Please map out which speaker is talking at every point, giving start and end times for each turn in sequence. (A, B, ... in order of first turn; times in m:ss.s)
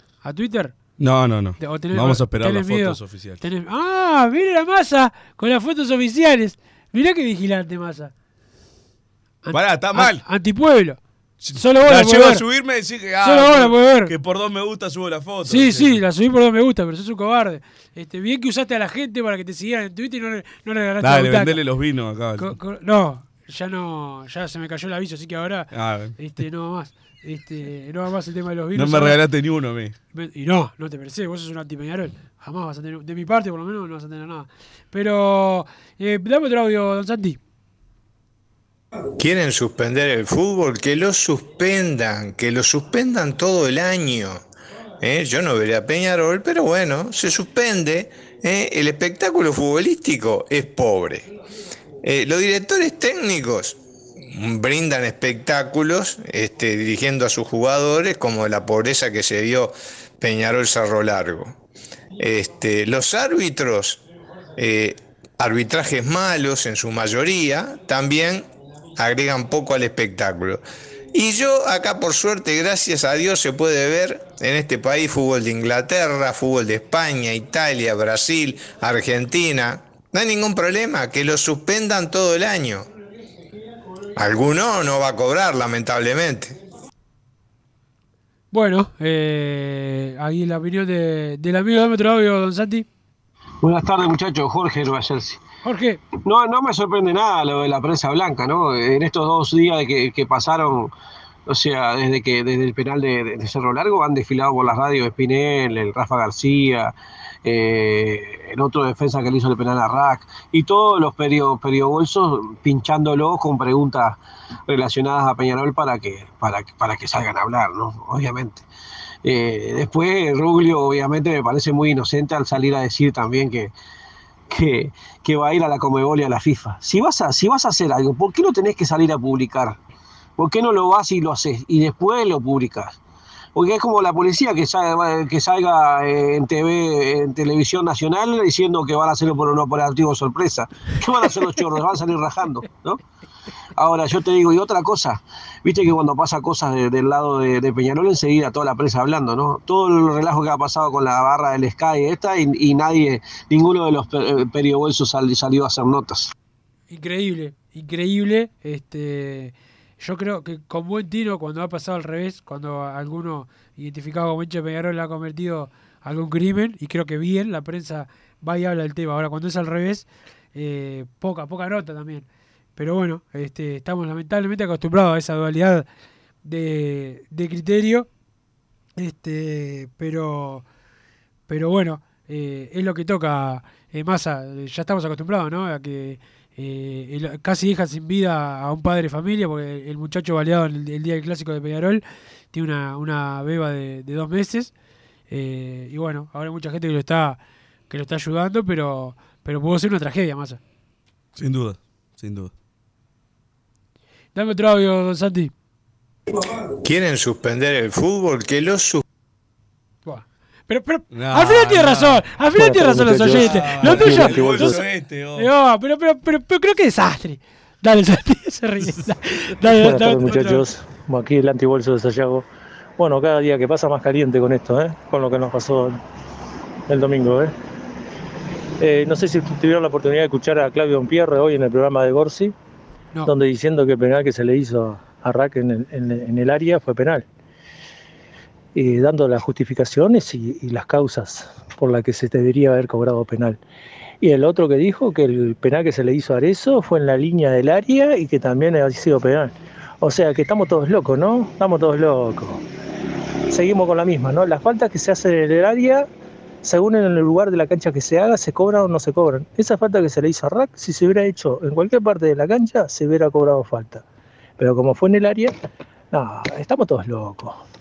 0:00.2-0:00.7 A
0:01.0-0:03.4 B
0:01.6-0:08.1 A
0:09.4-0:11.0 A
0:09.5-0:10.2 B
0:11.4-0:16.0 B
0:11.6-0:12.4 A
0:13.2-0:14.1 A
0:15.4-0:21.6 A
0:21.0-0:22.6 B
0:22.4-0:29.2 A
0:25.7-0:26.2 B
0:28.7-0:30.0 B
0:30.1-0:37.4 A
0:39.2-0:44.4 C
0:45.0-0:51.3 C
0:52.0-0:53.8 C
0:54.3-1:01.5 C
1:02.2-1:04.0 C
1:04.6-1:10.6 C
1:11.1-1:22.9 C
1:24.1-1:26.6 C
1:28.5-1:32.9 A
1:33.6-1:35.4 D
1:35.6-1:36.0 A
1:36.2-1:40.9 D
1:41.5-1:46.9 D
1:47.4-1:58.6 D
1:59.2-2:03.7 D
2:04.5-2:09.8 D
2:10.4-2:13.0 D
2:13.6-2:23.0 D
2:23.8-2:36.3 D
2:36.9-2:55.9 A
2:56.4-2:58.1 A
2:59.0-3:00.6 A
3:01.5-3:14.7 A
3:15.3-3:17.4 A
3:17.9-3:20.6 A
3:21.4-3:22.5 B
3:24.3-3:25.5 A
3:26.8-3:29.0 C
3:30.0-3:34.8 A
3:31.1-3:32.3 B
3:32.5-3:34.8 E
3:33.3-3:35.5 B
3:35.3-3:40.6 A
3:39.6-3:42.5 E
3:43.0-3:46.0 E
3:46.9-3:47.5 E
3:48.8-3:52.5 E
3:53.3-3:57.3 E
3:58.7-4:03.6 E
4:04.2-4:12.6 E
4:13.5-4:16.1 E
4:16.6-4:24.0 E
4:24.6-4:25.5 E
4:26.1-4:27.6 E